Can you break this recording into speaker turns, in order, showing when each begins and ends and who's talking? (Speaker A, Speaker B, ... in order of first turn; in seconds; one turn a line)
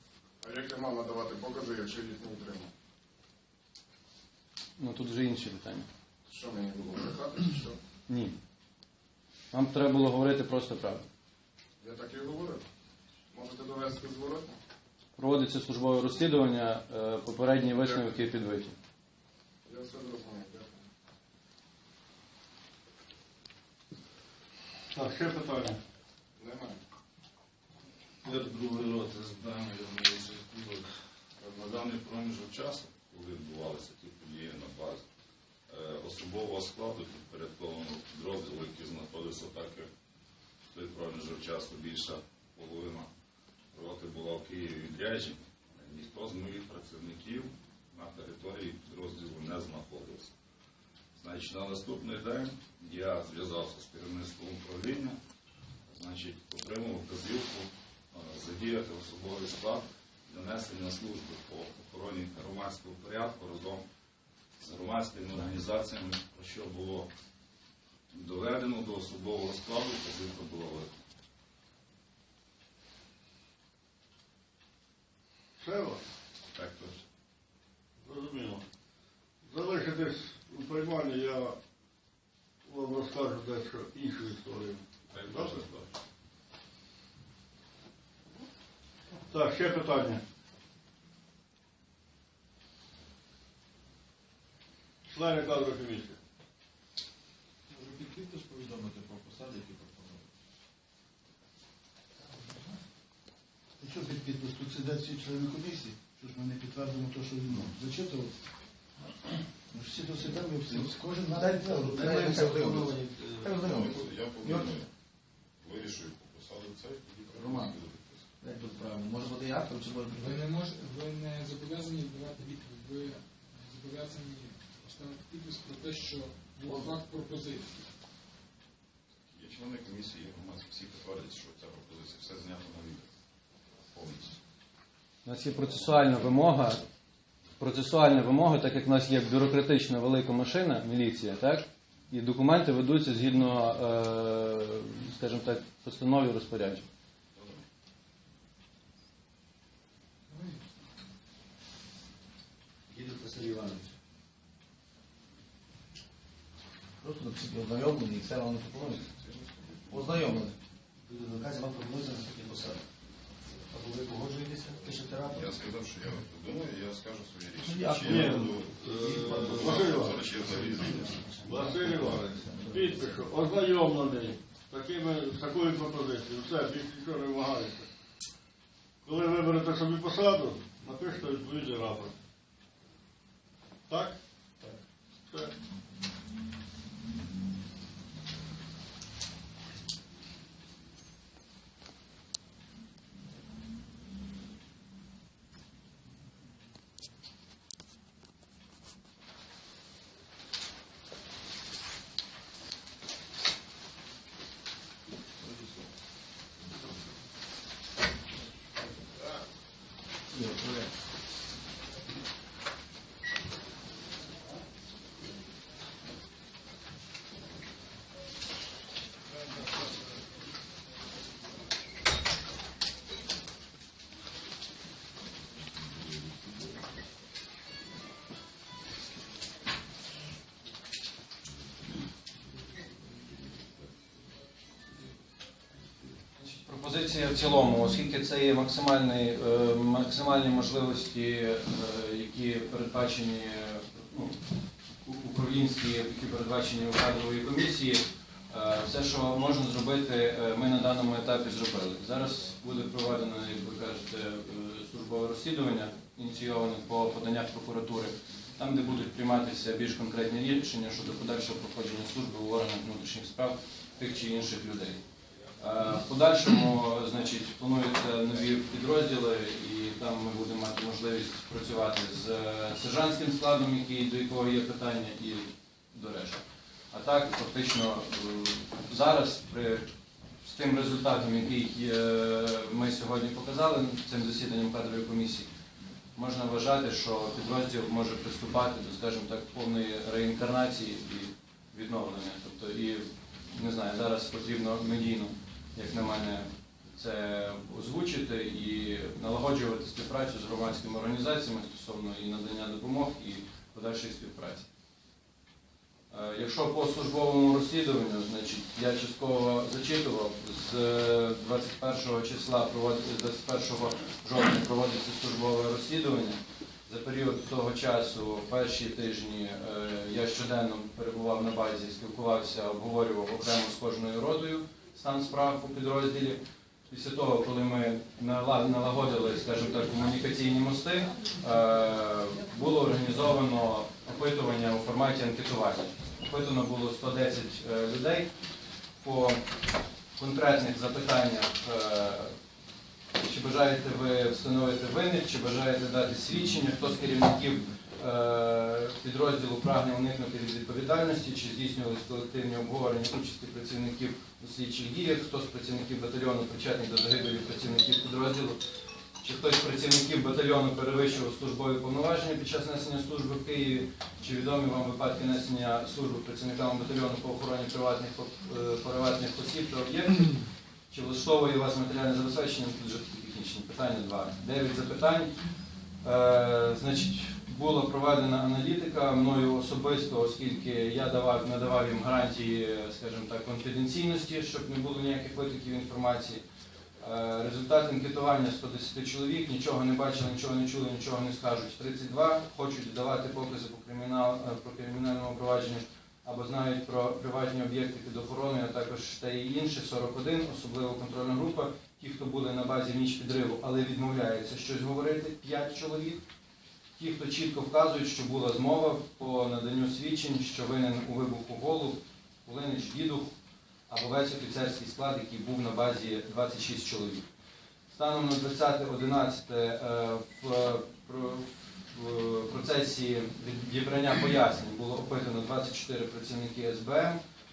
Speaker A: 0.4-2.7
Speaker B: 4.8-5.9
Speaker A: 6.3-7.8
Speaker B: 8.1-8.3
Speaker B: 9.5-11.1
Speaker A: 11.8-12.6
Speaker A: 13.3-14.6
Speaker B: 15.2-18.8
Speaker A: 19.7-20.8
Speaker C: 24.9-25.8
Speaker A: 26.4-26.8
Speaker D: 28.2-30.9
Speaker D: 31.4-35.0
Speaker D: 35.7-39.9
Speaker D: 40.7-43.1
Speaker D: 43.7-50.3
Speaker D: 51.2-55.2
Speaker D: 55.9-63.9
Speaker D: 64.6-67.1
Speaker D: 68.1-70.9
Speaker C: 75.6-76.0
Speaker D: 76.5-77.0
Speaker C: 78.0-78.6
Speaker C: 79.5-81.6
Speaker C: 82.7-85.6
Speaker D: 85.1-85.9
Speaker C: 89.3-90.2
Speaker C: 95.1-96.2
Speaker E: 97.8-99.6
Speaker F: 103.8-108.3
Speaker E: 104.4-104.7
Speaker E: 105.3-105.8
Speaker E: 107.3-108.1
Speaker E: 109.7-114.8
Speaker F: 110.0-112.9
Speaker D: 113.6-114.9
Speaker D: 115.6-118.2
Speaker E: 117.3-117.8
Speaker E: 118.4-120.5
Speaker G: 120.2-127.8
Speaker D: 129.3-133.1
Speaker D: 133.9-134.4
Speaker B: 135.2-136.8
Speaker B: 137.6-146.9
Speaker E: 152.9-153.9
Speaker E: 157.0-159.1
Speaker D: 159.1-160.1
Speaker E: 159.9-160.6
Speaker E: 161.1-162.8
Speaker E: 163.7-165.5
Speaker D: 165.3-168.7
Speaker E: 167.6-173.2
Speaker C: 168.1-170.3
Speaker D: 169.4-171.3
Speaker C: 171.4-177.9
Speaker C: 179.0-182.2
Speaker C: 183.9-184.2
Speaker E: 210.3-210.9
Speaker B: 236.4-244.4
Speaker B: 245.0-265.0
Speaker B: 265.6-279.9
Speaker B: 280.4-285.5
Speaker B: 286.1-304.7
Speaker B: 306.1-338.3
Speaker B: 339.0-339.4
Speaker B: 340.2-342.4
Speaker B: 343.2-358.6
Speaker B: 359.2-375.3
Speaker B: 376.0-386.4
Speaker B: 387.0-406.2
Speaker B: 407.0-413.3
Speaker B: 413.9-417.3
Speaker B: 417.9-427.2